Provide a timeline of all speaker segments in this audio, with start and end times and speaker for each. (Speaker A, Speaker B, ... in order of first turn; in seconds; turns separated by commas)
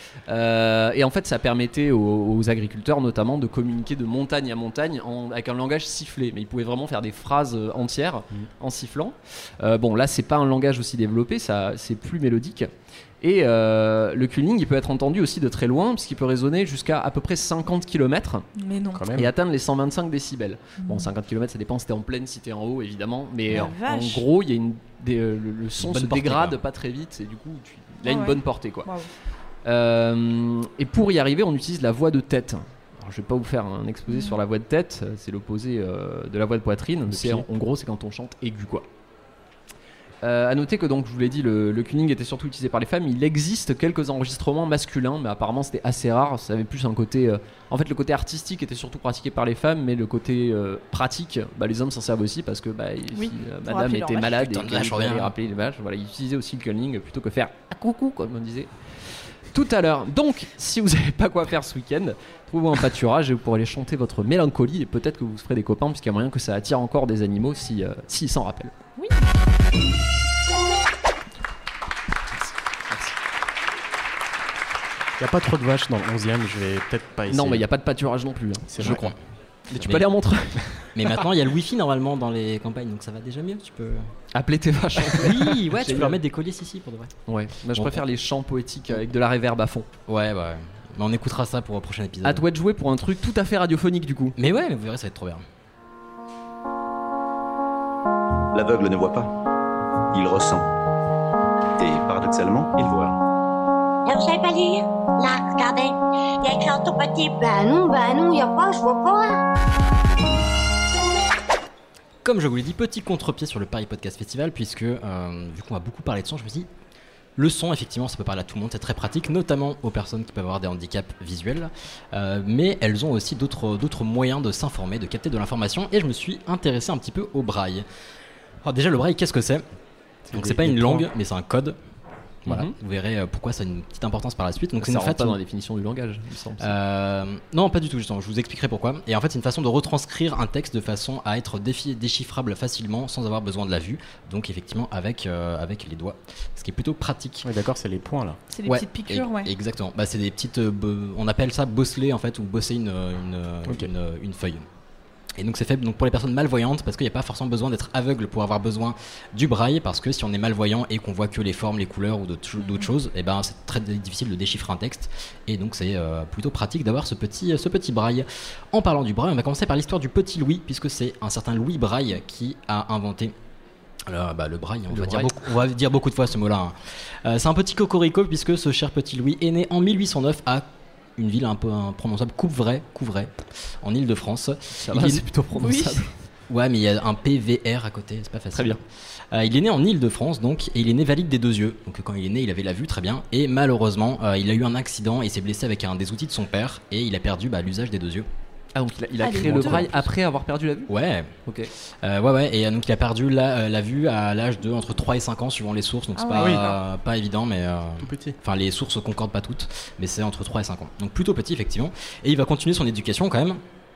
Speaker A: 0.3-18.4, Speaker B: 18.6-19.1, Speaker C: 18.9-19.3, Speaker A: 19.1-28.9, Speaker B: 20.8-21.1, Speaker B: 23.5-24.2, Speaker D: 25.8-26.6, Speaker B: 28.0-29.1, Speaker A: 29.6-38.9, Speaker B: 34.1-34.4, Speaker C: 37.1-37.5, Speaker A: 40.2-68.7, Speaker B: 53.1-54.3, Speaker D: 54.2-55.4, Speaker C: 75.2-77.7, Speaker A: 77.3-79.2, Speaker C: 78.7-79.1, Speaker D: 78.8-79.2, Speaker A: 79.7-81.1, Speaker D: 79.8-80.1, Speaker D: 80.9-84.1, Speaker A: 84.3-86.2, Speaker D: 85.0-87.1, Speaker A: 87.3-89.9, Speaker D: 87.7-88.0, Speaker D: 90.1-92.5, Speaker A: 92.2-94.4, Speaker D: 94.4-95.4, Speaker E: 98.5-99.3, Speaker E: 100.1-100.7, Speaker E: 101.8-103.2, Speaker F: 104.1-109.4, Speaker D: 112.2-116.7, Speaker D: 117.4-127.9, Speaker D: 128.6-129.6, Speaker C: 130.3-131.1, Speaker D: 130.3-131.8, Speaker D: 132.4-135.4, Speaker A: 132.5-132.7, Speaker A: 134.8-136.7, Speaker D: 136.6-147.5, Speaker C: 147.4-148.4, Speaker B: 148.5-149.5, Speaker D: 148.7-154.7, Speaker C: 153.7-153.9, Speaker D: 155.4-173.3, Speaker D: 174.1-180.7, Speaker A: 174.9-175.3, Speaker D: 181.2-185.3, Speaker A: 184.8-186.1, Speaker B: 185.6-186.1, Speaker D: 186.5-188.8, Speaker A: 188.5-188.8, Speaker D: 189.3-198.3, Speaker A: 198.8-200.9, Speaker B: 199.2-199.9, Speaker D: 199.4-200.0, Speaker D: 200.9-201.4, Speaker A: 201.4-201.7, Speaker D: 202.0-213.6, Speaker B: 206.2-206.8, Speaker C: 206.4-206.6, Speaker C: 208.0-208.4